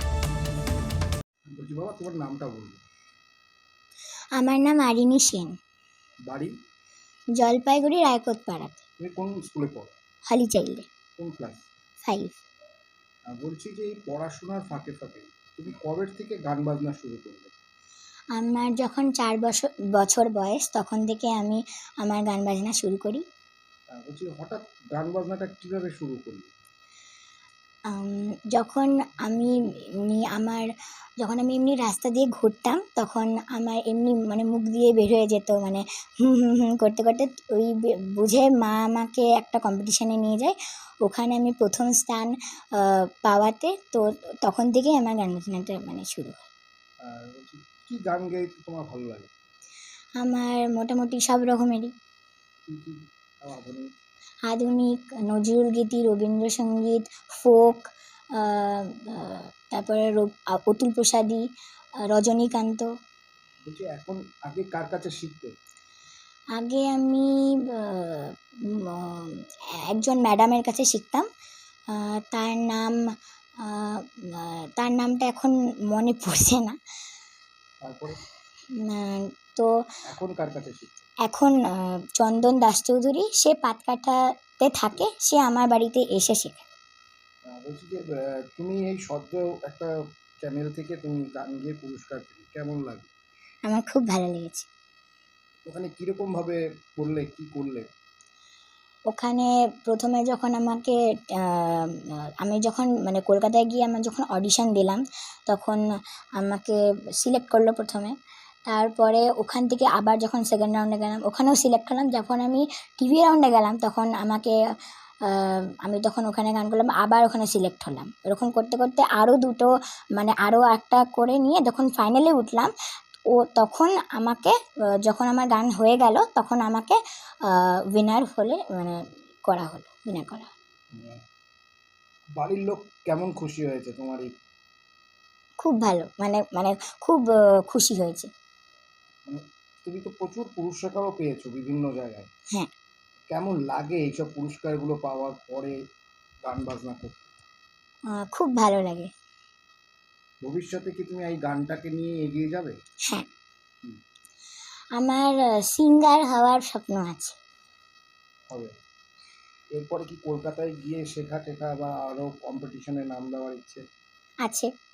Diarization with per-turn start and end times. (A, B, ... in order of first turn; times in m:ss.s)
0:01.5-0:02.8 A
0:04.4-0:05.5 B
0:07.4-0:08.8 B
0:09.0-0:09.9 A
0:10.3-0:10.9 B
0:11.2-0:11.7 A
0:12.0-0:12.4 B
0:13.3-0:17.6 A
0:18.4-0:23.2 B
0:24.0-0:26.5 A
0:27.9-0:29.5 B
0:30.0-0:30.7 B
0:31.2-0:46.5 B
0:47.0-0:49.3 A
0:50.2-0:51.9 B
0:52.7-0:53.9 A
0:54.5-1:01.4 B
1:02.1-1:02.9 B
1:03.6-1:05.5 A
1:06.6-1:11.3 B
1:11.9-1:13.0 B
1:13.6-1:16.8 B
1:17.8-1:18.2 A
1:18.8-1:19.7 B
1:20.1-1:21.0 A
1:21.2-1:26.6 B
1:27.5-1:28.0 A
1:28.6-1:29.9 A
1:30.4-1:33.1 A
1:33.6-1:34.7 B
1:35.7-1:37.9 A
1:39.1-1:45.8 B
1:46.4-1:48.1 B
1:48.7-1:54.6 B
1:55.2-2:02.7 B
2:03.3-2:10.5 B
2:10.9-2:11.2 A
2:12.4-2:14.3 A
2:15.6-2:18.3 B
2:19.3-2:22.3 A
2:23.3-2:25.8 A
2:26.4-2:27.3 A
2:28.1-2:29.1 B
2:30.4-2:32.8 A
2:35.0-2:37.4 B
2:39.7-2:43.8 A
2:44.4-2:44.7 B